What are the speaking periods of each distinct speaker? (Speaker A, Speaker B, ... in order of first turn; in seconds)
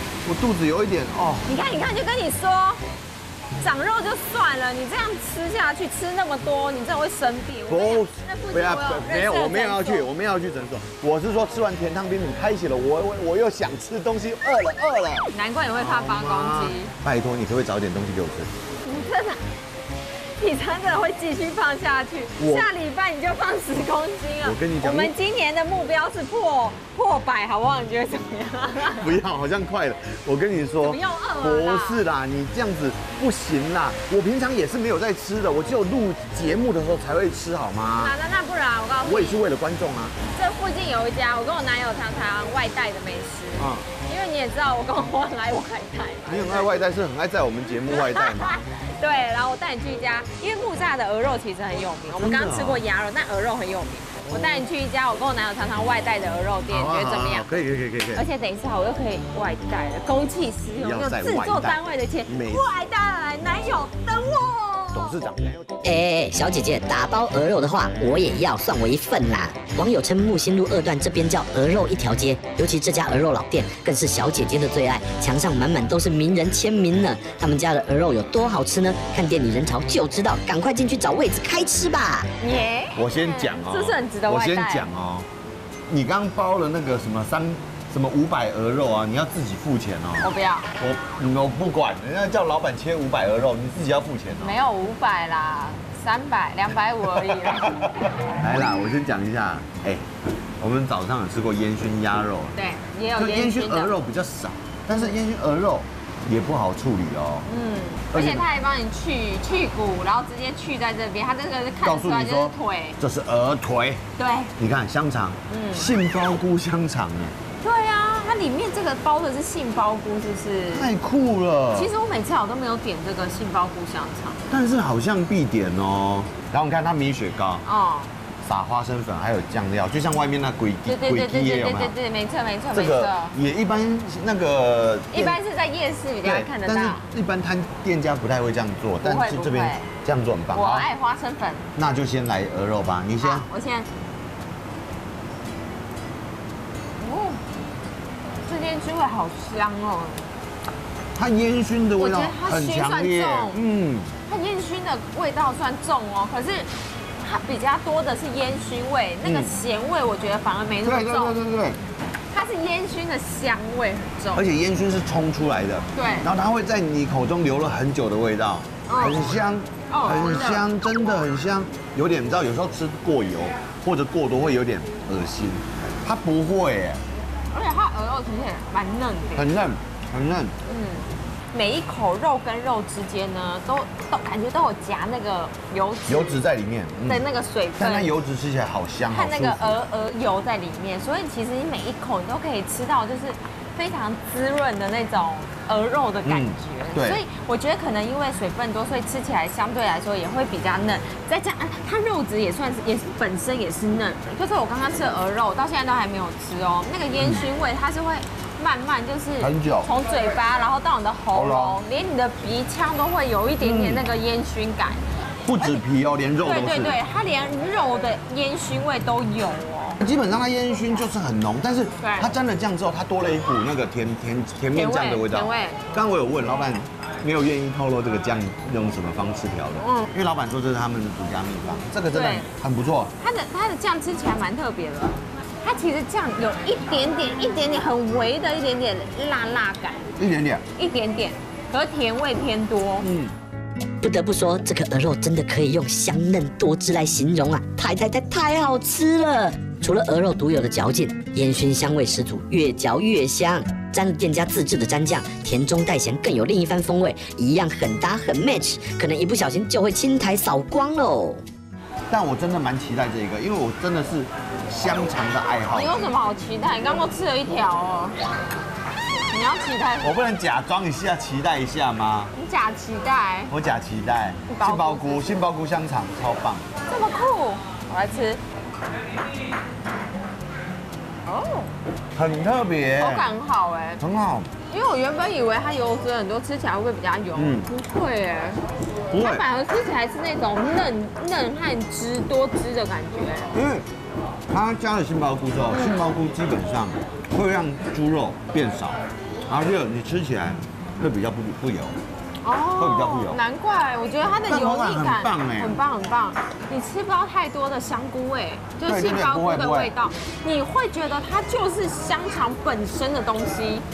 Speaker A: 0.2-1.5, 7.7-18.5, 22.4-22.7, 24.4-25.1, 28.8-38.1, 39.0-40.1, 43.6-43.9, 46.3-48.6, 52.2-52.8, 54.3-54.6, 56.7-58.2, 60.8-62.7, 64.9-65.8, 83.0-85.3, 85.9-94.6, 97.1-100.0, 100.6-102.6, 103.2-107.5, 108.1-108.5, 111.8-114.0, 114.6-117.4, 120.7-121.9, 124.5-127.6, 128.4-131.9, 132.7-135.4, 136.2-140.9, 141.8-143.5, 151.2-154.1, 159.2-159.6, 160.8-161.8, 164.3-177.0, 179.3-180.6, 186.1-187.2, 187.8-189.8, 196.2-197.2, 207.2-207.4, 209.4-209.9, 211.3-211.8, 213.6-214.0, 215.5-217.0, 220.0-233.1, 240.2-240.7, 243.0-243.3, 262.1-266.0, 270.0-272.3, 273.5-276.7, 282.1-283.3, 284.0-284.5, 287.4-287.7, 289.1-289.5, 293.5-293.9, 294.5-302.0, 302.8-303.4, 304.5-305.8, 308.9-309.9
Speaker B: 1.4-2.8, 3.6-10.1, 15.3-16.9, 18.8-19.4, 20.4-29.2, 30.8-32.0, 38.0-39.5, 40.3-46.7, 47.9-57.5, 58.1-65.2, 82.4-84.9, 90.2-90.7, 94.3-97.9, 102.5-103.9, 104.9-105.2, 107.5-113.0, 114.2-114.5, 115.5-115.9, 117.6-120.9, 121.7-124.4, 127.7-128.1, 130.9-133.4, 135.1-137.1, 139.0-139.9, 140.5-141.7, 143.2-143.9, 147.0-147.4, 148.4-150.3, 152.0-153.6, 154.3-161.4, 162.3-164.5, 165.9-166.3, 168.9-169.3, 169.9-170.7, 177.5-179.5, 180.7-186.4, 187.1-188.1, 189.1-215.1, 216.4-220.0, 222.0-222.3, 224.7-225.8, 229.8-230.1, 232.1-232.5, 233.2-240.1, 240.8-243.1, 265.7-268.1, 269.3-270.2, 272.3-273.5, 274.5-275.4, 276.9-278.4, 281.3-281.7, 283.0-284.0, 284.7-293.6, 295.7-296.0, 302.4-313.9
Speaker C: 65.8-82.3, 244.0-261.4